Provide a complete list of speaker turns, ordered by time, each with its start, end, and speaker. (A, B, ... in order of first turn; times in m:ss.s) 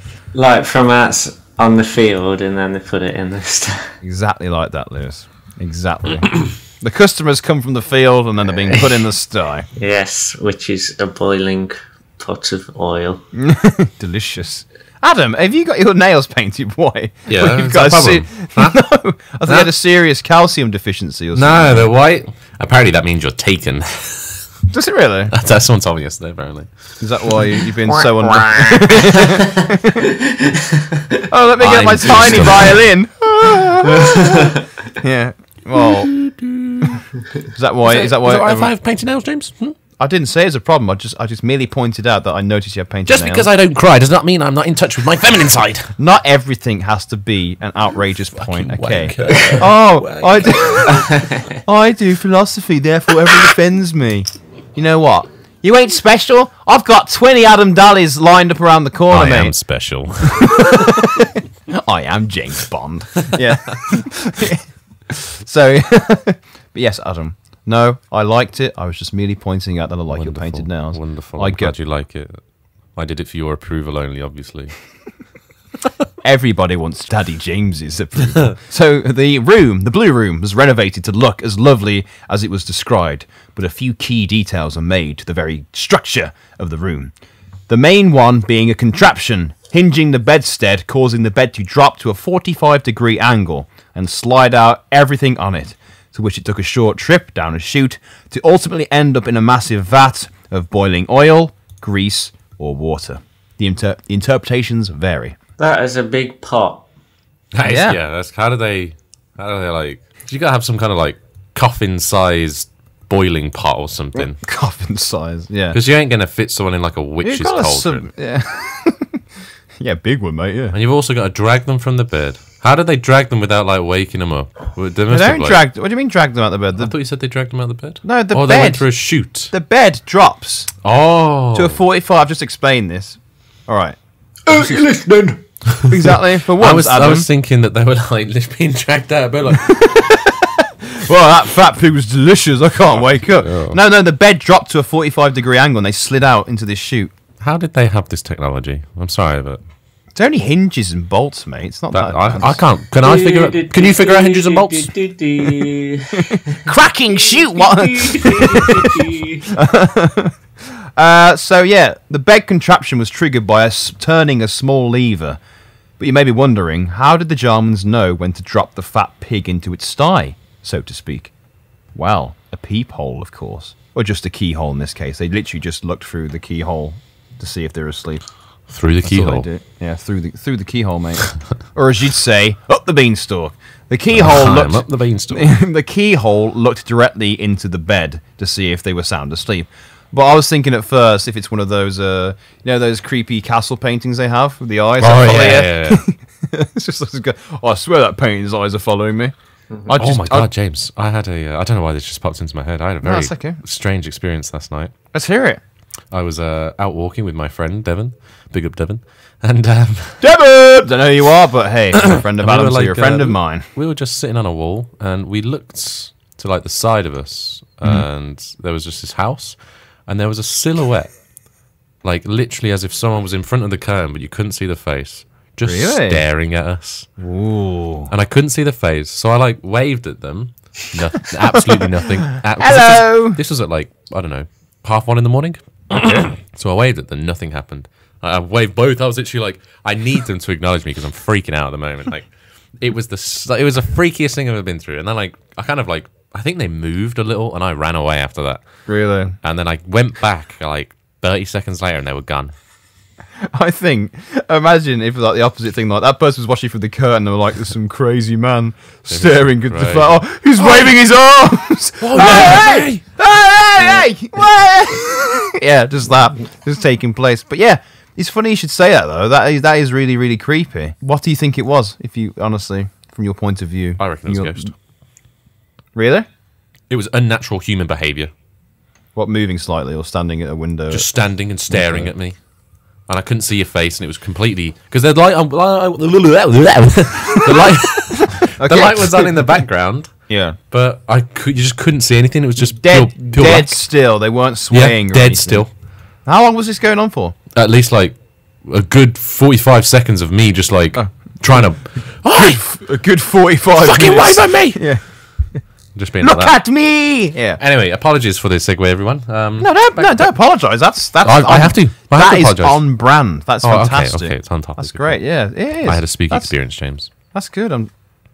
0:00.3-0:03.9 A
0:04.0-0:09.7 B
0:09.8-0:13.2 A
0:13.4-0:21.9 B
0:17.3-0:18.9 C
0:19.4-0:19.7 C
0:21.3-0:24.5 C
0:24.7-0:25.3 B
0:25.3-0:26.7 C
0:27.0-0:30.1 B
0:27.2-0:27.6 C
0:30.3-0:31.0 A
0:31.2-0:36.1 B
0:31.6-0:32.8 C
0:34.1-0:34.6 A
0:35.7-0:37.0 C
0:37.5-0:38.7 B
0:37.8-0:39.8 C
0:40.0-0:43.5 B
0:43.1-0:45.9 C
0:46.0-0:59.6 B
0:48.3-0:51.1 C
0:59.1-1:00.9 C
1:00.4-1:11.7 B
1:10.1-1:12.4 C
1:13.0-1:14.7 C
1:16.2-1:27.1 B
1:27.7-1:45.4 B
1:45.6-1:46.9 A
1:47.5-1:54.4 C
1:47.6-1:48.0 B
1:54.2-1:55.8 B
1:55.7-1:58.1 C
1:57.2-1:59.2 B
1:59.8-2:00.8 B
2:00.7-2:05.6 C
2:05.1-2:06.9 B
2:06.8-2:09.5 C
2:08.0-2:08.9 B
2:09.5-2:10.7 B
2:10.8-2:11.8 C
2:11.5-2:15.0 B
2:14.5-2:19.7 C
2:15.8-2:17.3 B
2:19.7-2:27.1 B
2:23.2-2:23.8 C
2:27.4-2:29.6 C
2:30.2-2:32.6 B
2:31.9-2:35.6 C
2:33.0-2:39.5 A
2:36.2-2:39.0 B
2:39.5-2:40.4 B
2:41.0-2:45.4 B
2:46.0-2:51.3 B
2:51.9-2:58.2 B
2:58.7-2:59.5 C
2:59.0-3:20.5 B
3:04.1-3:05.6 C
3:15.0-3:16.0 C
3:20.0-3:24.9 C
3:23.0-3:23.6 B
3:25.1-3:25.6 B
3:26.1-3:30.2 C
3:30.2-3:33.7 B
3:32.0-3:41.2 C
3:42.0-3:47.1 C
3:45.6-3:46.2 B
3:47.2-3:48.1 B
3:48.1-4:08.7 C
3:51.5-3:53.4 B
3:55.9-3:56.3 B
4:08.9-4:09.4 B
4:09.4-4:12.5 C
4:13.5-4:34.7 B
4:19.1-4:20.8 C
4:22.0-4:23.0 C
4:34.0-4:34.7 C
4:36.0-4:36.3 B
4:36.9-4:38.3 C
4:39.2-4:41.1 B
4:40.9-4:42.4 C
4:41.7-4:42.1 B
4:43.1-4:53.8 C
4:48.2-4:49.6 B
4:50.3-4:50.6 B
4:52.6-4:55.7 B
4:54.7-4:55.7 C
4:56.2-4:57.4 B
4:57.6-5:02.6 C
5:00.9-5:01.7 B
5:02.3-5:05.6 B
5:03.8-5:05.1 C
5:06.0-5:06.6 C
5:06.2-5:07.6 B
5:07.6-5:10.3 C
5:09.6-5:16.5 B
5:11.2-5:12.8 C
5:13.6-5:15.2 C
5:15.8-5:17.1 C
5:17.3-5:17.9 B